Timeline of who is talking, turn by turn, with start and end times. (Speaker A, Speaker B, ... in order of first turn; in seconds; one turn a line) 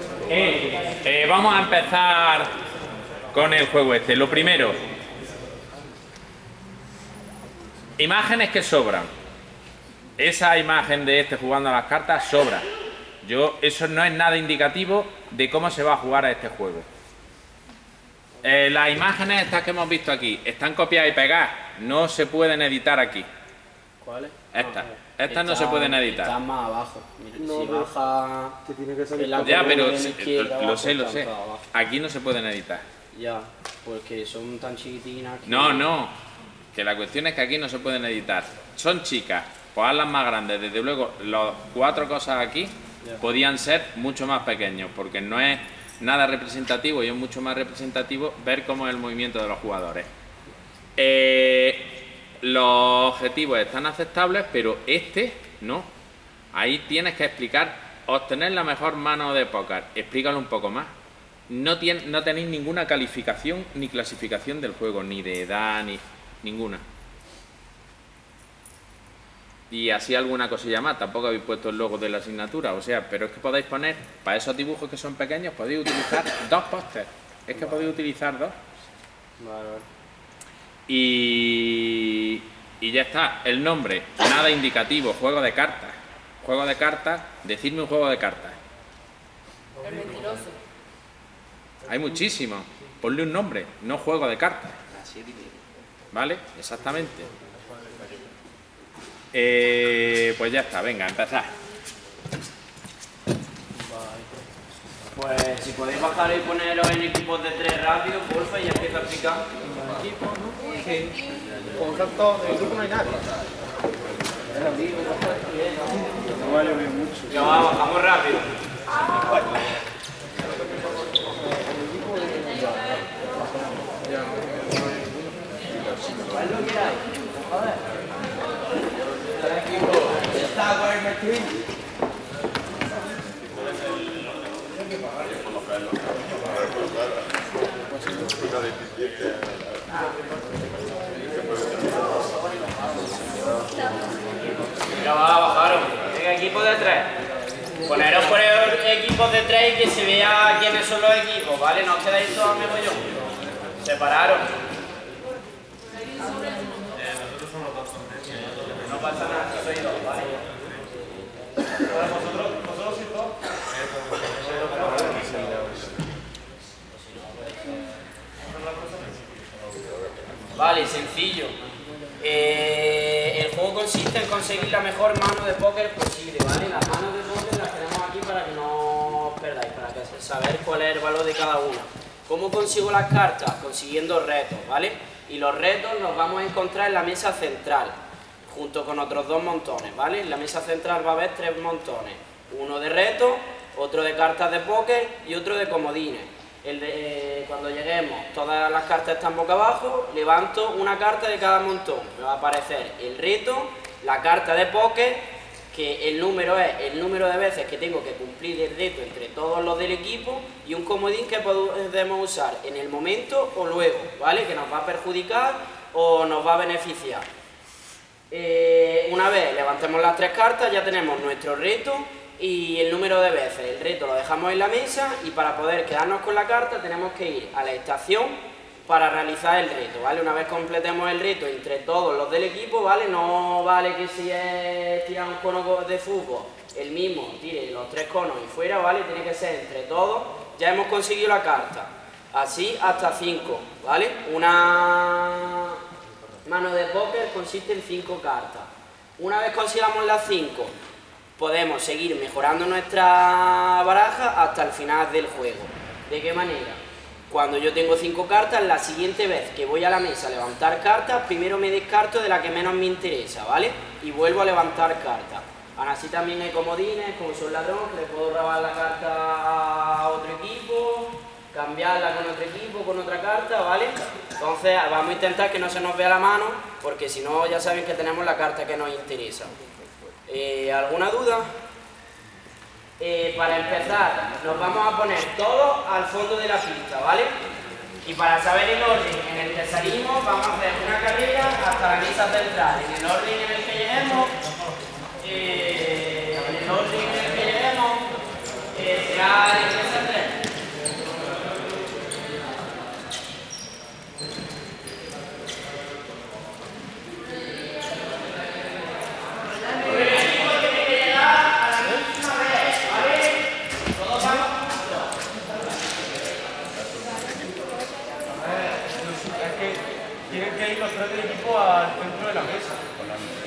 Speaker A: 0.3-2.5
Speaker A: 3.3-4.8
Speaker A: 8.0-9.1
Speaker A: 10.2-12.7
Speaker A: 13.2-16.9
Speaker A: 18.4-23.3
Speaker B: 24.0-28.6
Speaker A: 24.5-26.3
Speaker C: 27.4-27.9
Speaker C: 28.6-30.1
Speaker B: 29.1-31.6
Speaker A: 29.3-32.8
Speaker B: 33.1-35.9
Speaker A: 35.5-36.1
Speaker A: 36.7-50.1
Speaker A: 51.0-55.9
Speaker A: 56.5-60.9
Speaker A: 61.5-66.8
Speaker A: 69.7-78.6
Speaker B: 79.4-79.8
Speaker A: 80.9-88.6
Speaker C: 89.9-90.4
Speaker A: 91.9-94.8
Speaker A: 96.1-97.3
Speaker A: 99.3-101.5
Speaker B: 105.1-109.4
Speaker C: 110.7-111.1
Speaker C: 111.7-113.2
Speaker C: 114.6-115.7
Speaker C: 116.5-117.2
Speaker B: 117.3-118.5
Speaker C: 122.2-122.8
Speaker B: 126.5-126.8
Speaker B: 145.0-147.1
Speaker B: 147.8-153.1
Speaker B: 153.8-154.5
Speaker B: 158.8-160.4
Speaker C: 161.9-163.3
Speaker C: 164.4-165.7
Speaker C: 168.8-169.1
Speaker B: 170.5-171.5
Speaker B: 172.2-217.2
Speaker B: 218.3-245.8
Speaker B: 246.4-250.7
Speaker B: 251.4-279.5
Speaker B: 280.3-281.5
Speaker B: 283.0-287.3
Speaker B: 288.0-294.3
Speaker B: 295.2-298.1
Speaker B: 298.7-300.3
Speaker C: 319.1-322.8